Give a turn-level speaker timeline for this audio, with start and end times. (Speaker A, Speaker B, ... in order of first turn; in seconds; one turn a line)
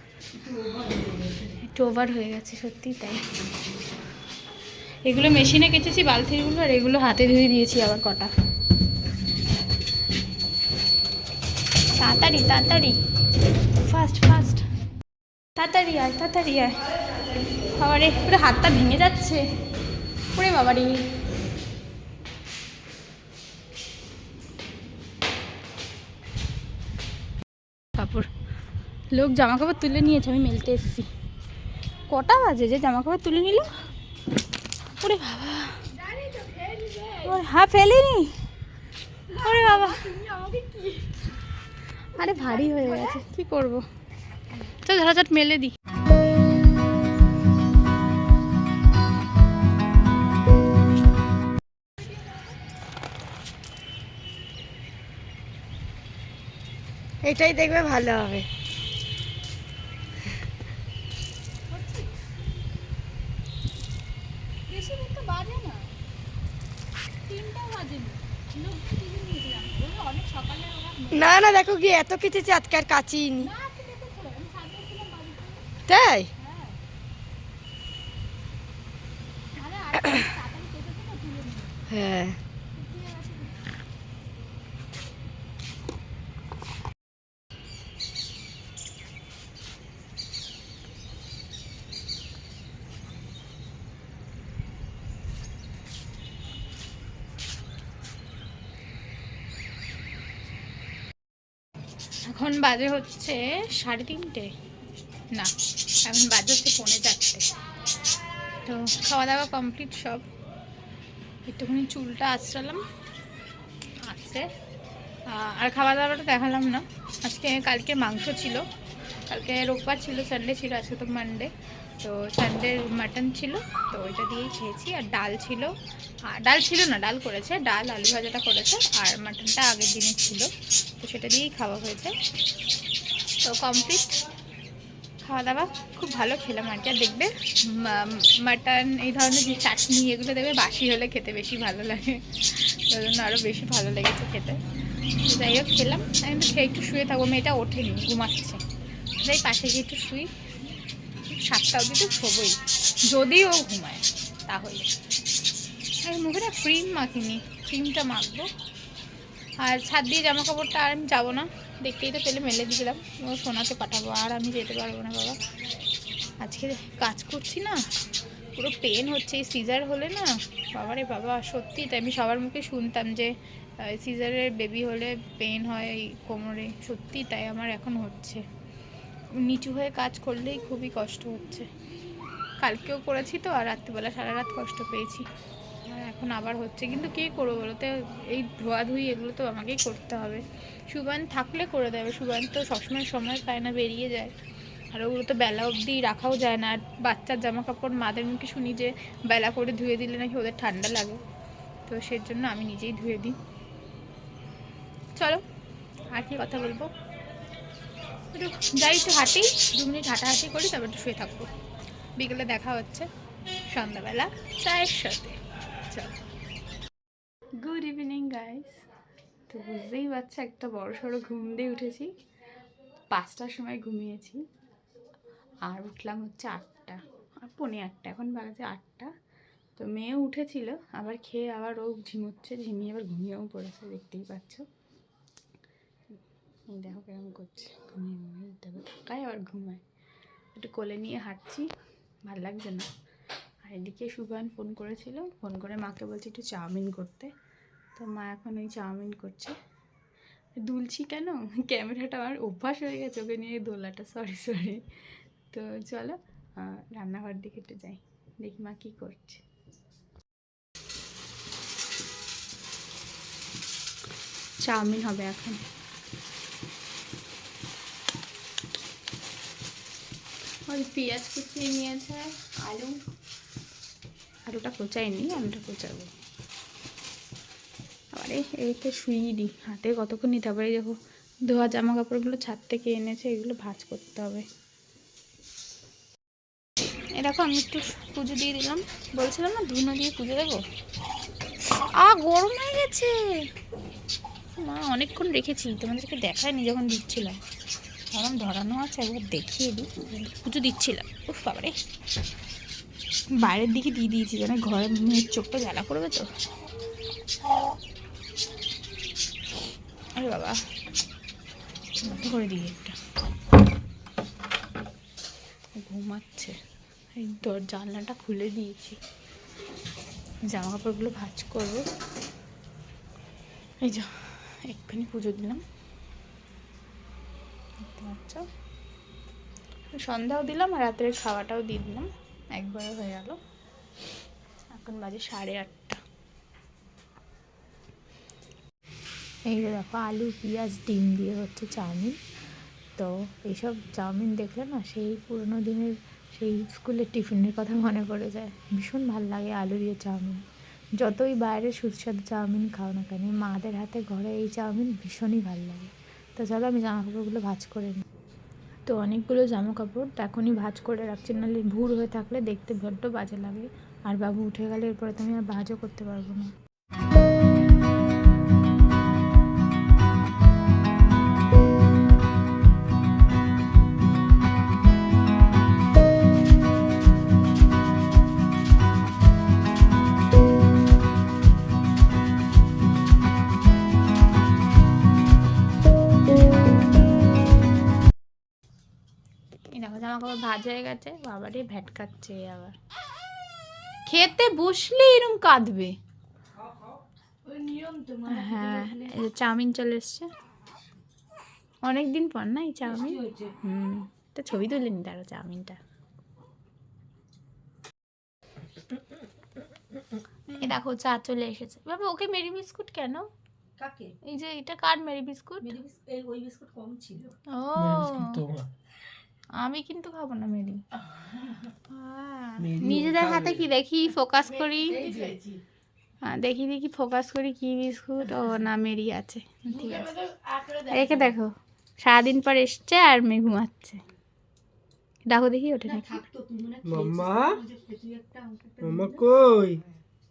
Speaker A: 0.4-1.6
Speaker B: 1.6-3.2
Speaker B: 5.0-8.3
Speaker B: 12.0-12.9
Speaker B: 13.8-14.6
Speaker B: 15.6-16.9
Speaker B: 17.6-19.4
Speaker B: 20.3-21.0
Speaker B: 27.9-28.3
Speaker B: 29.1-31.1
Speaker B: 32.1-33.7
Speaker B: 35.0-35.9
Speaker A: 36.0-37.3
Speaker B: 37.2-38.4
Speaker B: 39.3-40.2
Speaker A: 39.3-41.2
Speaker B: 42.1-43.9
Speaker A: 42.2-43.2
Speaker B: 44.7-45.7
Speaker C: 57.2-58.5
Speaker B: 61.7-62.1
Speaker B: 64.7-65.9
Speaker B: 67.2-71.5
Speaker C: 71.1-73.5
Speaker B: 73.3-75.7
Speaker C: 75.9-76.3
Speaker B: 76.4-76.8
Speaker B: 79.5-81.8
Speaker C: 81.9-82.4
Speaker B: 82.8-83.5
Speaker B: 102.3-104.5
Speaker B: 106.1-107.4
Speaker B: 108.6-110.3
Speaker B: 111.4-112.8
Speaker B: 114.0-114.5
Speaker B: 115.2-118.6
Speaker B: 119.3-125.7
Speaker B: 126.3-130.5
Speaker B: 131.0-132.1
Speaker B: 133.4-134.2
Speaker B: 135.2-144.6
Speaker B: 145.2-148.6
Speaker B: 149.2-150.3
Speaker B: 151.3-154.9
Speaker B: 156.0-158.5
Speaker B: 159.6-165.4
Speaker B: 166.4-167.8
Speaker B: 168.5-178.4
Speaker B: 179.4-181.7
Speaker B: 182.6-185.3
Speaker B: 185.8-194.3
Speaker B: 194.9-201.2
Speaker B: 201.8-203.4
Speaker B: 205.2-205.4
Speaker B: 206.1-206.9
Speaker B: 208.3-211.5
Speaker B: 212.2-213.1
Speaker B: 213.7-216.2
Speaker B: 217.6-218.8
Speaker B: 219.5-222.1
Speaker B: 223.1-224.4
Speaker B: 225.6-229.1
Speaker B: 229.8-234.6
Speaker B: 236.7-239.8
Speaker B: 240.5-241.7
Speaker B: 242.2-242.9
Speaker B: 243.6-247.3
Speaker B: 247.9-249.6
Speaker B: 250.6-254.8
Speaker B: 255.5-259.4
Speaker B: 264.6-265.6
Speaker B: 270.7-273.0
Speaker B: 274.5-276.1
Speaker B: 278.1-284.4
Speaker B: 287.2-290.6
Speaker B: 291.7-293.3
Speaker B: 294.6-297.4
Speaker B: 298.1-301.8
Speaker B: 303.4-306.3
Speaker B: 310.1-310.6
Speaker B: 312.0-312.9
Speaker B: 315.7-316.6
Speaker B: 317.1-319.0
Speaker B: 320.4-321.8
Speaker B: 323.8-325.6
Speaker B: 327.8-328.4
Speaker B: 329.9-333.4
Speaker B: 334.7-336.0
Speaker B: 339.5-342.2
Speaker B: 343.0-350.4
Speaker B: 351.0-358.0
Speaker B: 358.9-366.5
Speaker B: 389.7-392.7
Speaker B: 394.1-395.9
Speaker A: 397.4-399.2
Speaker B: 398.3-400.3
Speaker B: 401.8-405.8
Speaker A: 402.9-403.5
Speaker B: 410.5-413.3
Speaker A: 413.8-414.1
Speaker B: 414.2-415.7
Speaker A: 415.6-417.3
Speaker B: 417.5-418.4
Speaker D: 417.8-418.7
Speaker B: 419.6-420.8
Speaker B: 421.9-425.0
Speaker D: 422.6-423.6
Speaker A: 424.5-425.6
Speaker B: 426.2-430.1
Speaker A: 429.7-431.4
Speaker B: 430.9-434.0
Speaker B: 435.3-436.2
Speaker A: 435.8-439.3
Speaker D: 436.8-437.6
Speaker D: 438.8-439.8